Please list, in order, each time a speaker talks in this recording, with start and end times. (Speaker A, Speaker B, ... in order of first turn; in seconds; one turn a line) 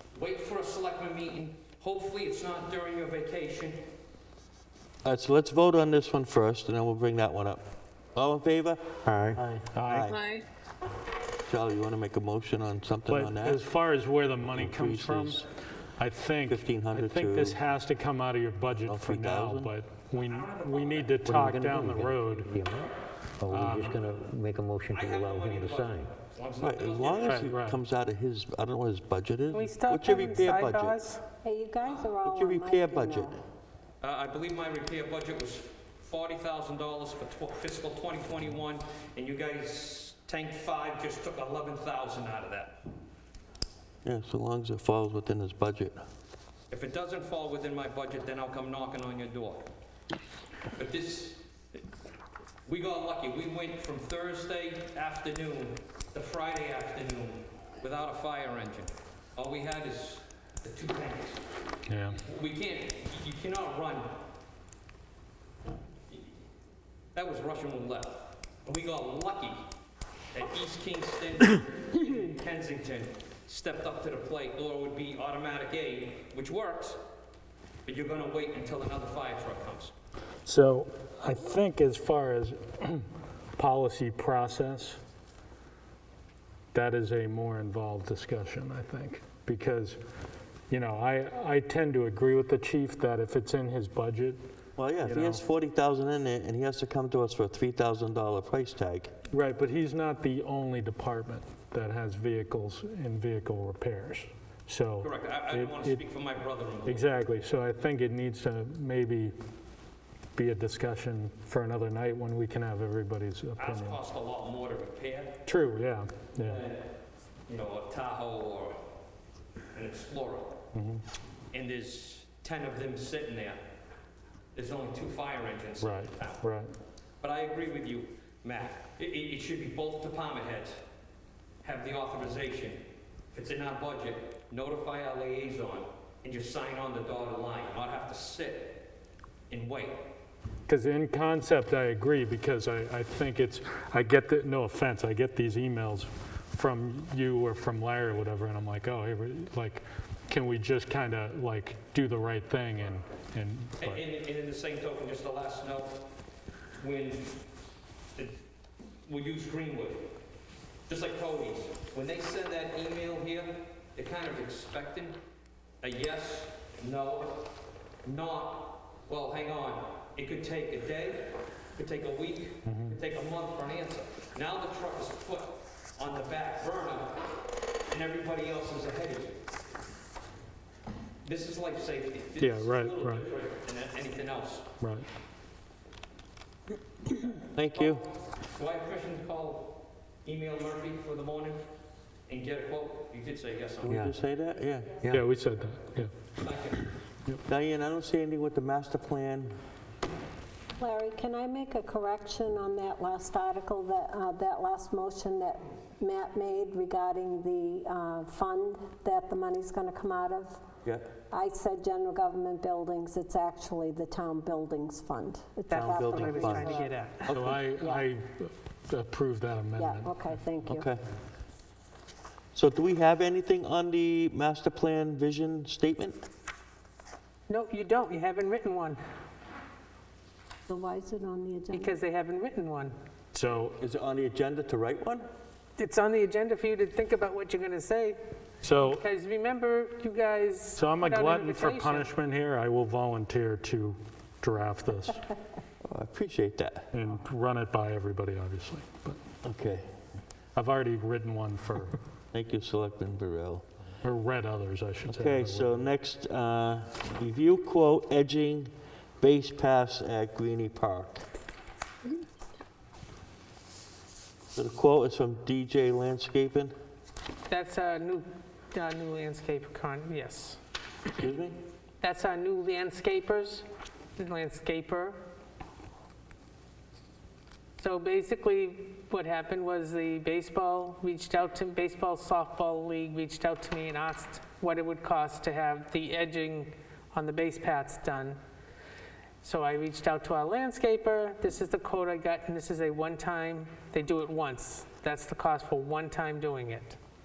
Speaker A: 0.1-3.8
Speaker B: 5.0-7.6
Speaker B: 8.2-10.3
Speaker C: 9.7-10.1
Speaker B: 11.5-13.7
Speaker C: 13.1-15.4
Speaker B: 14.4-15.5
Speaker C: 16.0-22.5
Speaker B: 16.5-17.6
Speaker B: 18.9-19.7
Speaker A: 20.2-21.3
Speaker D: 21.3-26.1
Speaker C: 23.5-24.0
Speaker A: 24.9-27.5
Speaker B: 26.6-31.0
Speaker C: 27.3-27.8
Speaker E: 29.5-31.2
Speaker F: 31.4-33.4
Speaker B: 32.2-33.4
Speaker A: 34.0-42.8
Speaker B: 44.0-46.0
Speaker A: 46.7-49.7
Speaker A: 50.8-51.4
Speaker A: 52.7-61.4
Speaker C: 61.9-62.2
Speaker A: 62.1-64.2
Speaker A: 67.1-69.7
Speaker A: 70.3-77.0
Speaker A: 77.8-79.9
Speaker C: 80.5-83.0
Speaker C: 83.6-85.0
Speaker C: 86.7-90.0
Speaker C: 90.7-94.4
Speaker B: 94.8-99.1
Speaker C: 95.0-95.4
Speaker C: 99.3-106.0
Speaker A: 105.0-107.1
Speaker C: 106.9-109.3
Speaker C: 110.4-114.0
Speaker A: 113.6-115.4
Speaker C: 115.5-116.6
Speaker A: 116.4-116.9
Speaker A: 117.5-118.8
Speaker A: 119.7-120.6
Speaker C: 120.7-121.0
Speaker A: 121.5-123.6
Speaker A: 124.5-126.5
Speaker C: 125.8-126.7
Speaker A: 127.2-130.8
Speaker A: 131.6-132.8
Speaker A: 133.3-138.9
Speaker A: 139.5-140.1
Speaker C: 140.7-154.0
Speaker A: 153.8-156.1
Speaker A: 156.8-157.4
Speaker A: 159.1-160.1
Speaker A: 160.9-165.2
Speaker A: 165.8-167.5
Speaker A: 168.1-177.3
Speaker C: 172.7-173.0
Speaker A: 177.9-179.4
Speaker A: 181.2-184.7
Speaker C: 182.4-183.3
Speaker C: 184.8-185.1
Speaker B: 187.6-188.0
Speaker A: 187.7-191.6
Speaker A: 192.3-194.1
Speaker B: 193.8-195.1
Speaker C: 195.1-196.1
Speaker A: 196.4-196.9
Speaker B: 197.5-199.6
Speaker F: 200.8-210.6
Speaker F: 211.3-218.0
Speaker E: 215.7-217.3
Speaker B: 215.7-217.6
Speaker C: 217.3-220.5
Speaker F: 219.8-220.9
Speaker B: 220.7-221.0
Speaker B: 222.5-226.2
Speaker E: 227.5-229.0
Speaker F: 230.7-232.0
Speaker E: 231.7-232.9
Speaker C: 233.3-233.8
Speaker B: 233.8-235.3
Speaker E: 235.8-238.2
Speaker C: 238.6-239.0
Speaker E: 239.0-242.1
Speaker C: 240.8-245.2
Speaker B: 245.8-246.9
Speaker C: 246.9-249.2
Speaker B: 249.4-249.9
Speaker C: 250.6-252.0
Speaker B: 252.3-253.7
Speaker C: 254.0-255.9
Speaker B: 255.1-261.3
Speaker B: 264.5-266.7
Speaker E: 267.5-270.6
Speaker B: 271.1-271.6
Speaker E: 272.0-273.7
Speaker E: 274.2-275.2
Speaker E: 277.8-288.4
Speaker E: 289.4-297.0